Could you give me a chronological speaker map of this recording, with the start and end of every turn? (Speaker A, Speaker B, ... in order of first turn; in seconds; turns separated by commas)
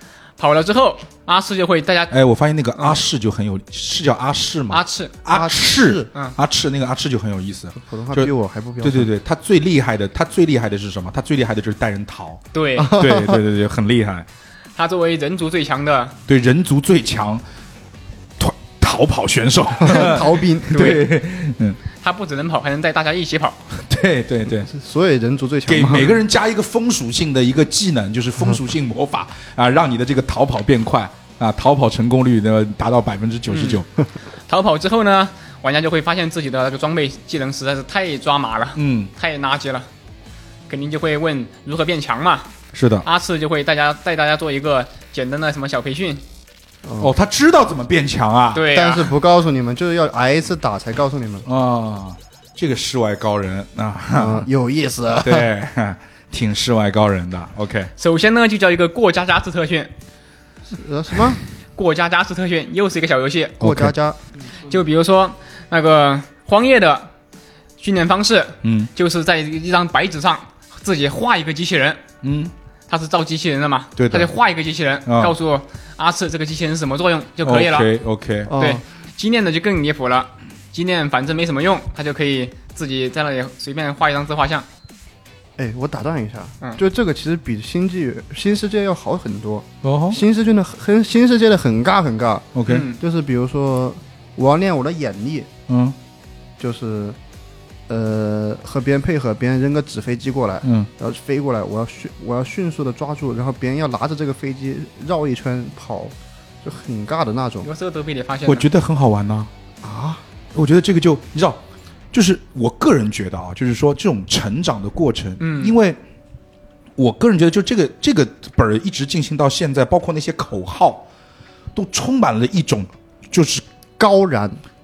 Speaker A: 0.4-2.1, Speaker B: 2.1-14.3, Speaker A: 4.7-5.1, Speaker C: 5.3-6.1, Speaker C: 7.8-9.1, Speaker A: 12.5-13.0, Speaker C: 12.8-13.4, Speaker A: 14.8-16.1, Speaker B: 16.3-17.4, Speaker B: 18.4-21.8, Speaker C: 19.8-21.0, Speaker A: 20.7-21.1, Speaker A: 22.0-23.6, Speaker B: 23.8-24.7, Speaker C: 24.6-26.2, Speaker B: 25.7-33.9, Speaker A: 33.5-33.8, Speaker A: 34.5-39.9, Speaker B: 38.8-39.1, Speaker A: 40.7-42.5, Speaker B: 42.7-43.0, Speaker A: 43.0-46.2, Speaker C: 46.8-47.1, Speaker B: 47.0-48.6, Speaker A: 48.5-49.1, Speaker C: 48.7-51.5, Speaker B: 51.5-54.5, Speaker C: 54.1-55.5, Speaker B: 55.2-57.9, Speaker A: 58.0-59.9, Speaker C: 60.7-61.4, Speaker A: 61.8-63.6, Speaker C: 63.6-64.2, Speaker B: 63.6-63.9, Speaker A: 64.6-67.1, Speaker A: 67.8-72.0, Speaker B: 68.6-68.9, Speaker B: 72.2-72.5, Speaker A: 72.9-77.9, Speaker B: 74.0-74.3, Speaker B: 75.0-75.3, Speaker B: 77.4-78.5, Speaker C: 78.5-78.8, Speaker A: 78.5-84.7, Speaker C: 85.6-95.5, Speaker B: 89.8-90.2, Speaker B: 92.5-92.8, Speaker A: 92.7-93.0, Speaker B: 95.7-96.0, Speaker C: 96.6-97.2, Speaker C: 97.9-107.7, Speaker B: 100.6-100.9, Speaker A: 107.6-108.7, Speaker B: 108.4-109.5, Speaker C: 109.8-110.2, Speaker B: 110.5-111.6, Speaker B: 112.1-116.0, Speaker A: 115.4-115.7, Speaker B: 117.0-121.1, Speaker B: 121.7-123.6, Speaker C: 124.0-124.6